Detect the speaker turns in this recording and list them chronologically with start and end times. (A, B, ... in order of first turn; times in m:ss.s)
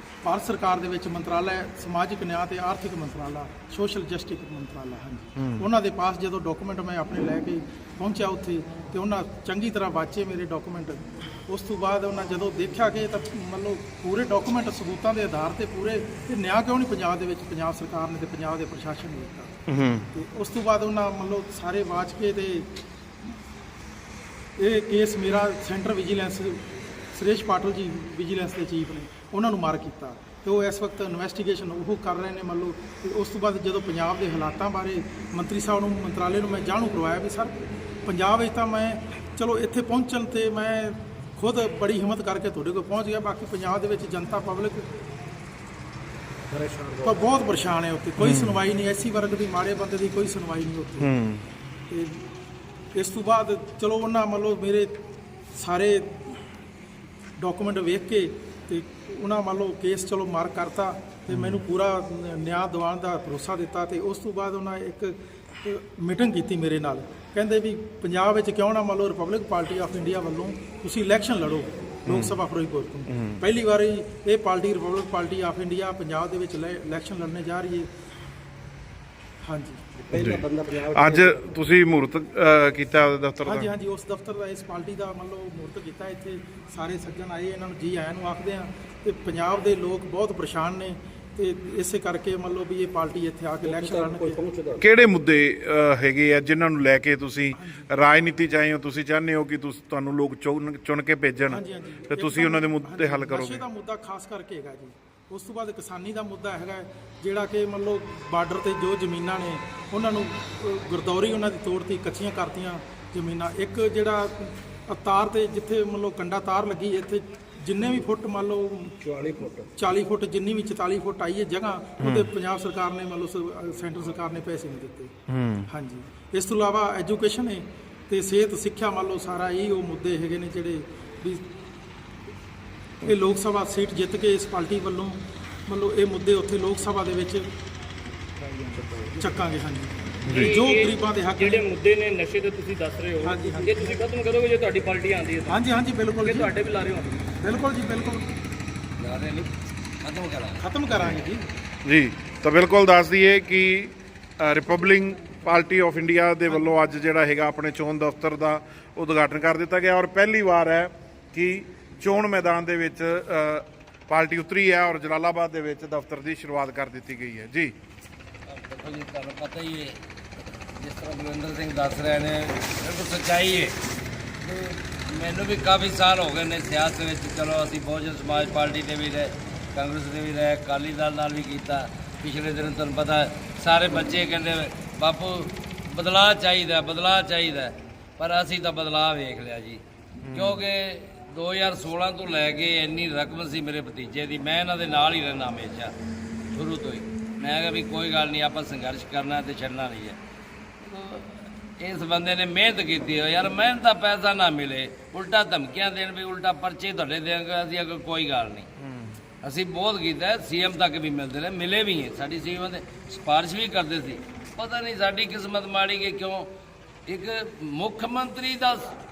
0:00.2-0:19.6 A
0:05.4-0:05.7 B
0:19.7-0:20.1 B
0:20.1-0:22.7 A
0:24.6-0:26.6 A
0:27.1-0:44.9 A
0:46.5-0:47.0 C
0:47.0-0:51.1 A
0:48.2-0:48.6 B
0:51.0-0:51.5 B
0:51.9-0:52.2 A
0:53.0-0:54.9 A
0:55.6-0:56.4 A
0:57.4-1:17.9 A
1:01.3-1:01.6 B
1:12.1-1:12.4 B
1:13.1-1:13.4 B
1:19.4-1:19.8 A
1:20.1-1:23.7 B
1:20.2-1:21.0 C
1:23.4-1:34.4 A
1:33.8-1:34.8 C
1:34.8-1:43.6 B
1:37.5-1:37.9 A
1:41.5-1:59.0 A
1:59.0-1:59.7 C
1:59.8-2:05.1 A
2:02.0-2:02.3 B
2:05.3-2:05.7 B
2:05.7-2:11.5 A
2:13.0-2:17.5 A
2:19.1-2:21.7 A
2:20.3-2:20.6 B
2:20.4-2:25.5 D
2:23.2-2:24.0 A
2:23.4-2:24.2 C
2:25.5-2:26.5 A
2:26.2-2:27.2 D
2:27.3-2:28.2 A
2:29.0-2:29.5 E
2:30.0-2:30.6 E
2:30.6-2:31.5 A
2:31.8-2:47.7 B
2:48.5-2:50.0 E
2:50.8-2:53.8 E
2:54.4-3:09.8 E
3:10.3-3:10.6 B
3:10.3-3:15.9 E
3:16.5-3:20.2 E
3:20.8-3:28.7 E
3:28.8-3:29.2 B
3:29.4-3:36.5 E
3:37.1-3:38.9 E